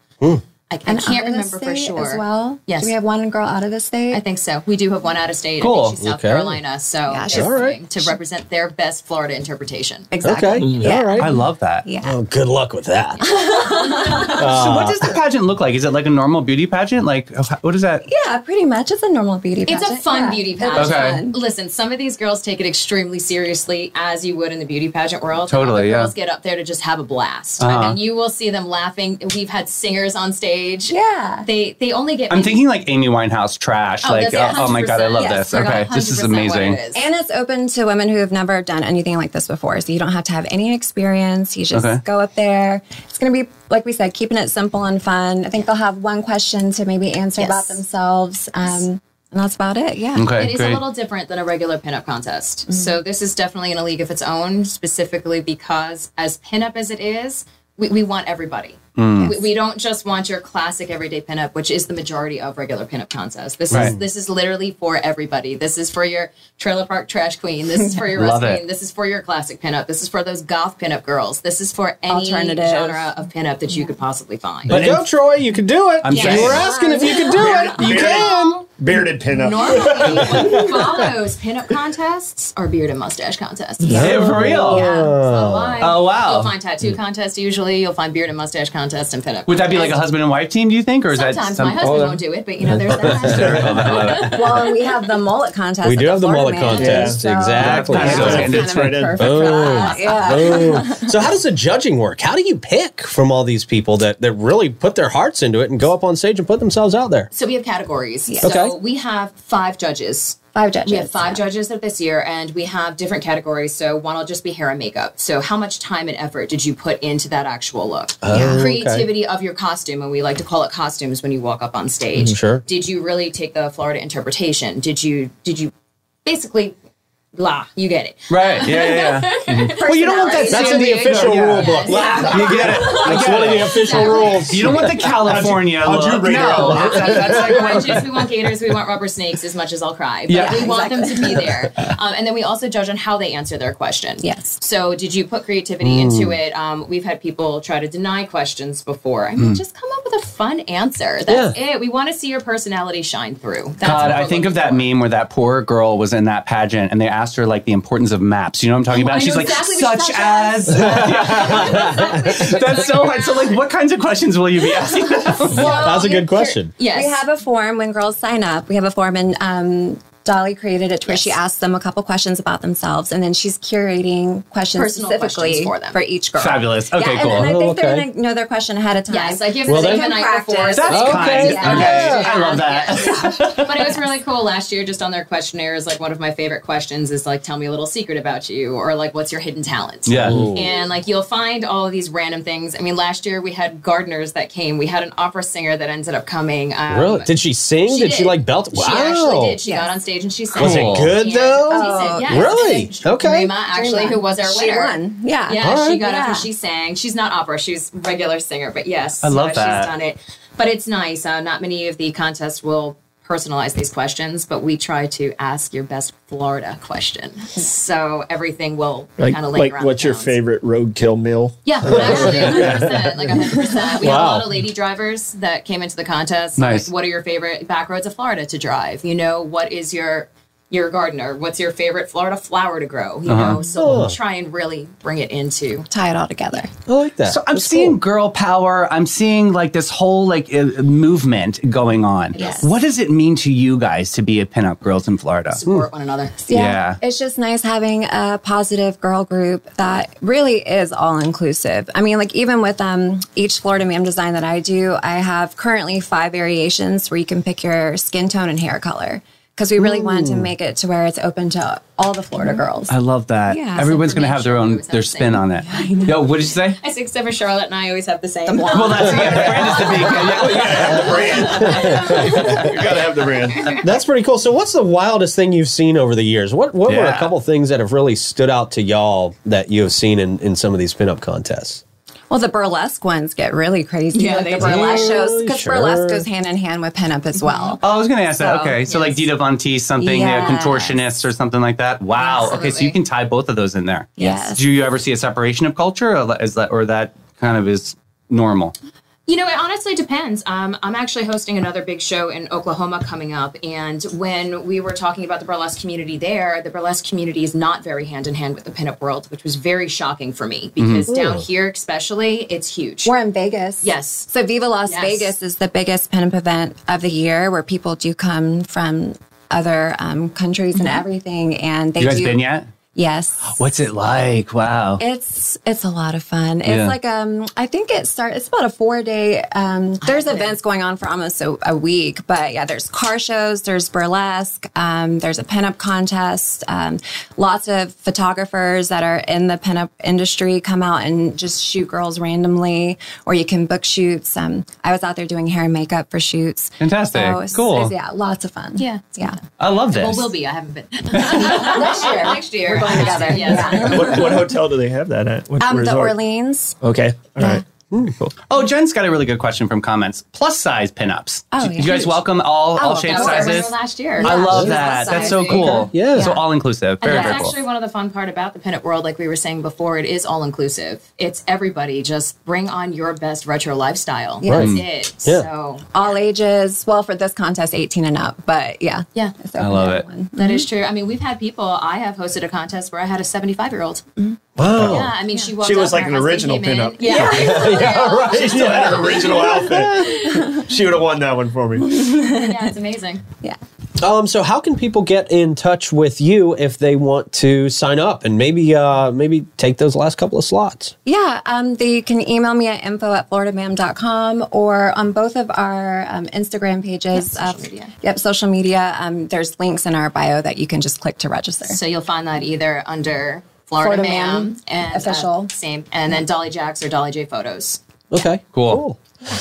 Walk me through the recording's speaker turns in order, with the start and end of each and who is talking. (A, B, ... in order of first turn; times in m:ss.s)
0:00.7-0:02.9 A
0:00.8-0:04.2 B
0:04.1-0:10.1 A
0:05.6-0:06.0 C
0:06.0-0:06.6 D
0:07.1-0:08.1 B
0:07.3-0:07.8 D
0:10.1-0:12.1 B
0:10.2-0:11.3 D
0:11.2-0:11.8 C
0:12.0-0:13.2 D
0:13.2-0:14.4 A
0:13.2-0:14.6 B
0:14.2-0:15.2 D
0:14.4-0:18.0 C
0:18.0-0:21.4 B
0:19.7-0:32.6 A
0:20.7-0:21.2 C
0:25.5-0:26.1 C
0:27.6-0:28.0 C
0:30.9-0:31.5 B
0:32.3-0:36.8 C
0:34.0-0:37.0 A
0:35.2-0:35.4 B
0:36.9-0:50.3 B
0:41.7-0:42.0 C
0:47.4-0:47.8 A
0:50.1-0:50.8 C
0:50.3-1:14.8 A
0:59.0-0:59.3 C
1:03.7-1:04.0 C
1:08.1-1:08.6 C
1:12.1-1:13.1 B
1:14.7-1:15.0 C
1:14.7-1:18.6 D
1:16.0-1:16.7 C
1:16.1-1:16.6 A
1:16.1-1:17.7 B
1:17.2-1:18.6 A
1:17.4-1:20.7 E
1:19.3-1:24.1 A
1:23.8-1:25.1 B
1:23.9-1:25.8 D
1:23.9-1:24.9 C
1:24.7-1:30.0 A
1:25.8-1:26.5 C
1:29.5-1:32.0 C
1:31.1-1:34.4 A
1:31.8-1:32.2 E
1:33.0-1:34.5 C
1:33.0-1:33.9 D
1:34.2-1:41.2 B
1:35.8-1:38.6 D
1:36.7-1:37.2 E
1:37.5-1:39.1 C
1:37.8-1:39.4 E
1:39.2-1:47.3 D
1:39.4-1:40.8 A
1:47.3-2:05.7 A
1:48.3-1:48.7 B
1:48.4-1:48.7 D
1:50.5-1:51.4 B
1:58.2-1:59.1 D
1:58.3-1:58.6 B
2:02.2-2:02.6 D
2:06.2-2:06.7 A
2:07.3-2:14.9 A
2:08.3-2:18.1 C
2:09.6-2:11.0 B
2:09.8-2:15.0 D
2:11.8-2:13.2 B
2:13.8-2:14.3 B
2:15.1-2:17.4 E
2:16.3-2:34.9 A
2:17.5-2:17.8 D
2:20.3-2:20.7 C
2:20.3-2:21.4 B
2:24.2-2:24.6 B
2:25.8-2:26.4 D
2:31.3-2:31.5 D
2:33.8-2:45.8 C
2:38.9-2:42.9 A
2:40.8-2:42.5 D
2:45.4-2:47.2 A
2:45.5-2:46.8 D
2:46.9-3:02.6 B
2:51.1-2:51.4 A
2:54.7-2:56.0 A
2:56.4-2:57.5 C
2:57.2-2:58.1 D
2:59.1-3:17.3 A
2:59.7-3:00.1 D
3:00.7-3:03.9 C
3:00.9-3:02.2 D
3:10.0-3:10.5 C
3:10.2-3:10.8 D
3:16.9-3:19.6 D
3:17.8-3:40.4 A
3:19.6-3:19.9 B
3:20.6-3:23.5 D
3:20.6-3:21.1 C
3:21.7-3:22.7 B
3:23.7-3:26.5 B
3:25.6-3:26.0 D
3:29.2-3:29.9 C
3:39.2-3:42.5 E
3:41.6-3:55.9 A
3:41.9-3:42.9 D
3:42.4-3:42.8 C
3:43.4-3:44.2 B
3:44.0-3:44.6 D
3:46.6-3:46.9 C
3:53.3-3:53.6 C
3:53.8-3:54.1 D
3:55.9-3:56.7 B
3:56.9-3:58.0 D
3:57.2-4:05.6 C
4:02.3-4:02.7 B
4:05.5-4:06.4 A
4:06.4-4:22.9 B
4:06.5-4:07.0 C
4:19.8-4:20.5 D
4:22.9-4:26.8 C
4:23.5-4:23.9 B
4:23.8-4:32.7 A
4:25.7-4:26.1 B
4:28.5-4:29.4 B
4:28.7-4:31.5 C
4:29.1-4:30.0 D
4:30.1-4:33.8 E
4:30.9-4:32.7 D
4:33.5-4:33.8 A
4:33.8-4:41.8 D
4:36.8-4:37.3 C
4:42.3-4:47.8 B
4:44.1-4:45.2 A
4:44.6-4:46.2 D
4:47.4-4:47.8 A
4:47.8-4:58.7 C
4:48.4-4:48.8 B
4:48.9-4:49.2 A
4:50.0-4:51.0 B
4:52.2-4:53.0 A
4:54.2-4:54.6 B
4:59.3-5:13.1 A
5:10.8-5:11.1 C
5:11.1-5:11.4 D
5:13.0-5:23.6 B
5:13.8-5:14.3 A
5:14.8-5:15.3 A
5:22.0-5:22.7 C
5:23.5-5:25.0 C
5:25.0-5:49.4 B
5:26.6-5:26.9 C
5:30.0-5:30.5 A
5:46.8-5:47.9 C
5:48.8-5:49.3 A
5:49.6-5:50.3 C
5:49.9-5:54.3 A
5:51.2-5:54.5 B
5:51.2-5:51.8 C
5:53.0-5:56.2 E
5:55.6-5:56.8 B
5:56.8-5:57.6 E
5:57.9-5:58.2 D
5:58.4-6:07.5 C
6:01.5-6:02.2 B
6:02.7-6:06.4 B
6:03.0-6:05.9 A
6:04.5-6:04.8 D
6:05.4-6:06.3 D
6:07.0-6:15.9 A
6:07.0-6:07.5 B
6:14.4-6:14.7 B
6:14.5-6:15.4 D
6:14.5-6:14.8 C
6:15.9-6:20.6 B
6:19.6-6:20.0 C
6:20.3-6:24.0 A
6:24.6-6:25.1 D
6:24.7-6:29.6 A
6:25.6-6:27.6 E
6:27.0-6:28.2 B
6:27.1-6:29.4 D
6:28.2-6:32.0 E
6:30.1-6:30.6 B
6:31.9-6:32.7 B
6:32.2-6:33.2 A
6:34.0-6:40.9 D
6:41.0-6:51.8 B
6:47.1-6:47.9 A
6:51.6-6:57.8 A
6:53.8-6:55.5 B
6:58.1-6:59.0 D
6:58.5-6:58.8 C